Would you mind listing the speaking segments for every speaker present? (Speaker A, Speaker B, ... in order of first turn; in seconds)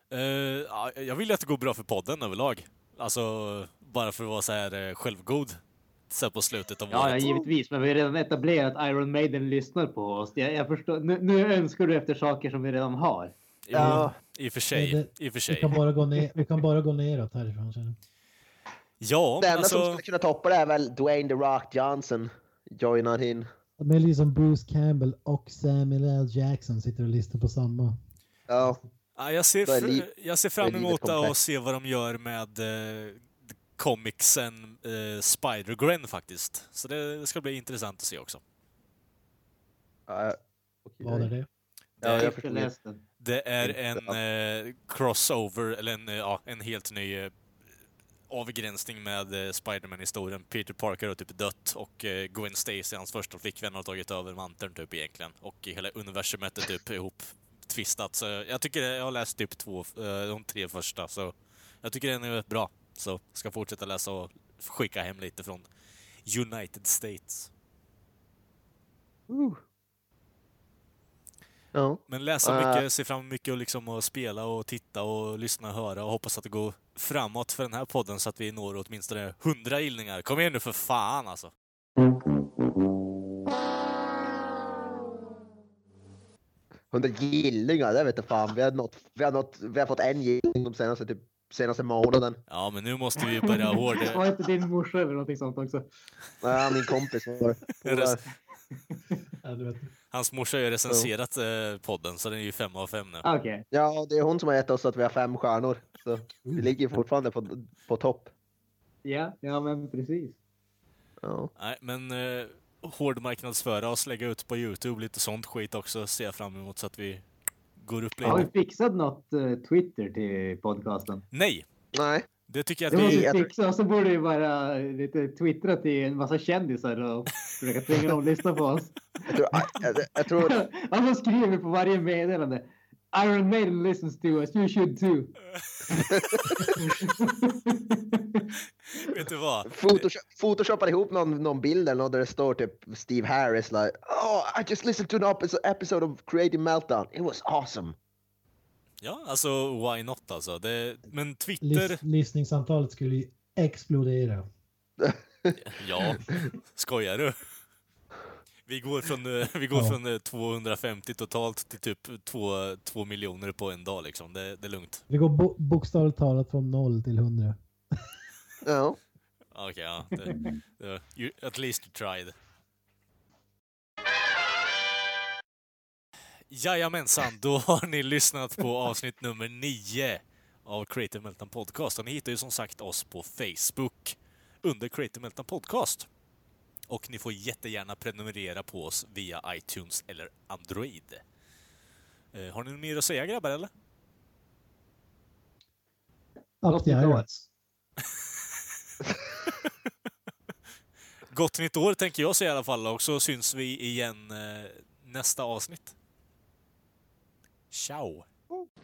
Speaker A: 0.1-7.3, 13.7-15.8, 19.0-20.0, 29.2-38.4, 42.0-42.3, 43.2-47.3, 48.3-65.7, 66.2-67.5, 72.1-81.5, 92.5-94.2, 97.8-98.2, 100.1-103.2, 111.6-117.2, 117.8-118.5, 121.3-121.6, 122.5-123.4, 139.1-140.0, 149.0-152.0, 155.6-157.3, 158.7-165.0, 169.5-172.3, 176.5-186.1, 186.9-191.2, 192.3-193.7, 201.3-205.9, 207.7-208.2
Speaker B: 6.9-13.3, 42.0-43.0, 93.2-95.8, 103.2-103.6, 109.0-110.3, 118.2-121.2, 122.9-129.7, 130.3-135.3, 136.8-138.5, 196.7-197.5
Speaker C: 7.2-7.5, 13.7-14.1, 19.4-23.5, 28.5-28.8, 29.6-30.1, 30.6-31.3, 40.1-41.3, 42.0-42.7, 43.6-44.2, 69.3-69.6, 71.7-72.8, 86.9-92.4, 96.4-98.2, 103.7-108.3, 111.2-111.5, 121.9-122.3, 122.9-123.5, 129.3-130.7, 135.9-136.6, 139.7-147.9, 155.0-155.5, 168.6-169.0
Speaker D: 13.8-14.1, 14.7-18.0, 23.8-27.9, 41.0-41.5, 99.4-99.9, 151.6-154.4, 165.1-167.6, 196.6-197.2